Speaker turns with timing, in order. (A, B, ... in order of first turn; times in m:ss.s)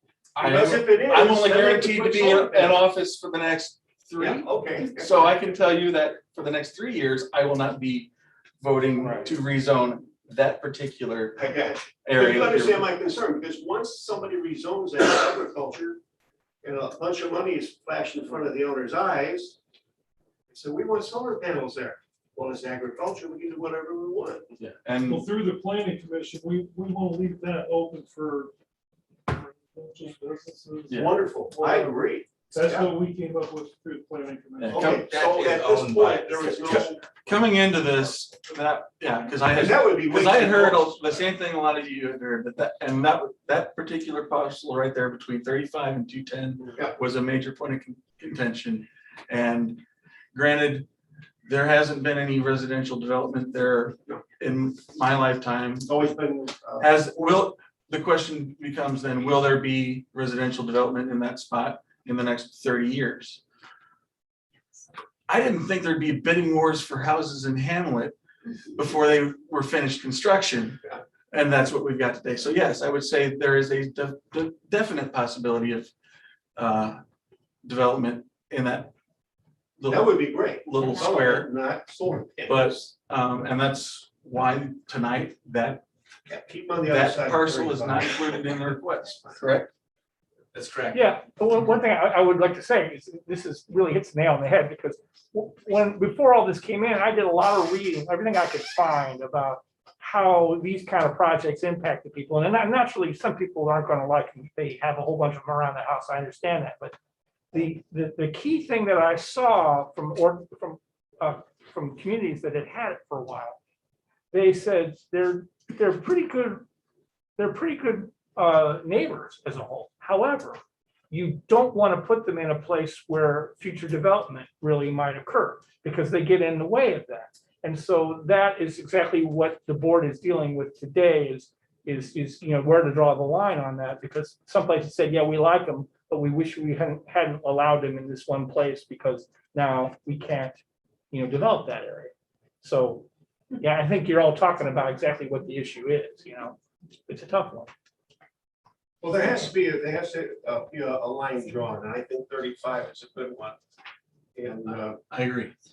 0:00.4-0:02.8 A
0:00.4-0:11.5 B
0:04.2-0:05.3 A
0:09.0-0:09.3 A
0:11.4-0:16.0 A
0:12.0-0:12.9 B
0:16.6-0:19.6 A
0:20.5-0:24.5 A
0:24.6-0:25.2 B
0:25.0-0:28.5 C
0:29.3-0:32.0 C
0:30.9-0:31.1 B
0:30.9-0:32.9 A
0:32.5-0:35.1 C
0:34.6-0:35.2 B
0:34.6-0:37.1 A
0:34.9-0:36.9 D
0:36.6-0:49.8 B
0:39.5-0:41.2 A
0:46.6-0:46.9 A
0:50.3-0:50.9 B
0:51.4-0:55.9 B
0:55.8-0:57.4 A
0:56.8-1:03.4 B
1:05.3-1:08.2 B
1:08.7-1:15.9 B
1:16.6-1:17.0 B
1:17.6-1:18.9 B
1:19.8-1:21.5 B
1:19.9-1:22.8 A
1:22.4-1:25.8 B
1:26.3-1:28.3 A
1:26.9-1:29.7 B
1:30.5-1:31.1 D
1:30.9-1:46.9 E
1:47.5-1:53.6 E
1:54.3-1:56.6 E
1:57.4-2:00.6 E
2:01.1-2:20.6 E
2:21.1-2:23.1 E
2:23.6-2:27.7 E
2:29.0-2:33.6 A
2:34.4-2:35.0 A
2:35.1-2:35.5 B